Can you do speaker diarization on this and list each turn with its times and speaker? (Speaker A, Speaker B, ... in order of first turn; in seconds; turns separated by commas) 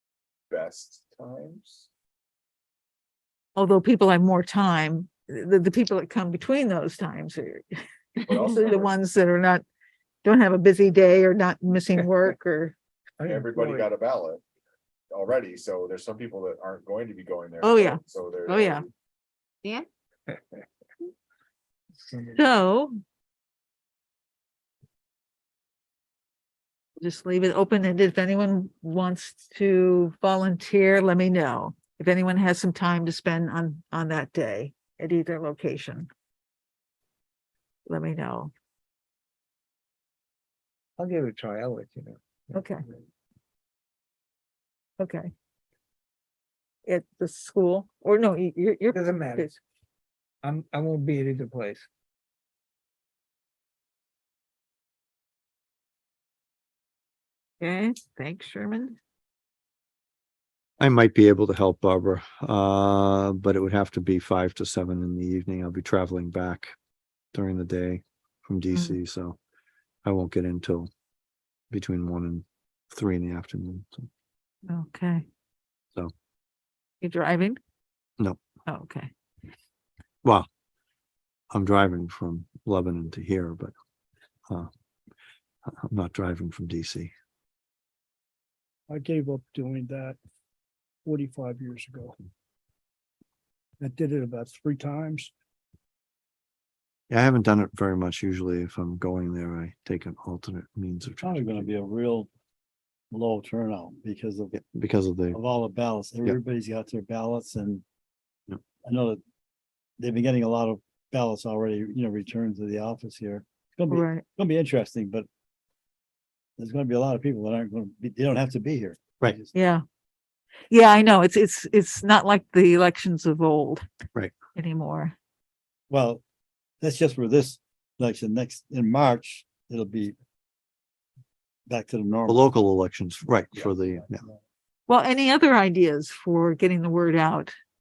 Speaker A: 0.5-1.9, Speaker B: 3.6-7.7, Speaker A: 8.3-8.9, Speaker B: 8.4-9.7, Speaker B: 10.2-12.8, Speaker C: 13.2-13.9, Speaker A: 13.3-14.4, Speaker A: 15.1-18.9, Speaker B: 17.6-18.8, Speaker C: 22.0-22.5, Speaker B: 22.3-22.9, Speaker B: 27.0-36.1, Speaker B: 37.9-38.5, Speaker C: 41.0-42.7, Speaker B: 42.5-42.8, Speaker B: 45.0-45.3, Speaker B: 46.9-49.6, Speaker C: 48.9-49.6, Speaker C: 50.4-51.9, Speaker B: 57.6-59.0, Speaker D: 60.8-66.7, Speaker D: 67.3-69.4, Speaker D: 70.0-70.9, Speaker D: 71.7-74.1, Speaker B: 74.7-75.2, Speaker B: 77.0-77.6, Speaker B: 78.7-79.1, Speaker D: 81.5-83.7, Speaker D: 85.9-87.1, Speaker E: 88.9-90.2, Speaker E: 91.0-92.2, Speaker E: 93.8-95.3, Speaker D: 97.1-101.8, Speaker F: 101.2-102.3, Speaker F: 103.1-104.5, Speaker D: 104.5-105.4, Speaker F: 105.3-107.8, Speaker F: 108.8-109.2, Speaker F: 110.0-115.3, Speaker B: 113.9-114.2, Speaker F: 116.6-119.5, Speaker B: 119.5-119.8, Speaker B: 120.7-123.8, Speaker B: 124.5-125.2, Speaker F: 125.9-126.2, Speaker F: 126.8-130.2, Speaker F: 131.7-132.4, Speaker D: 132.3-134.2, Speaker B: 134.9-137.5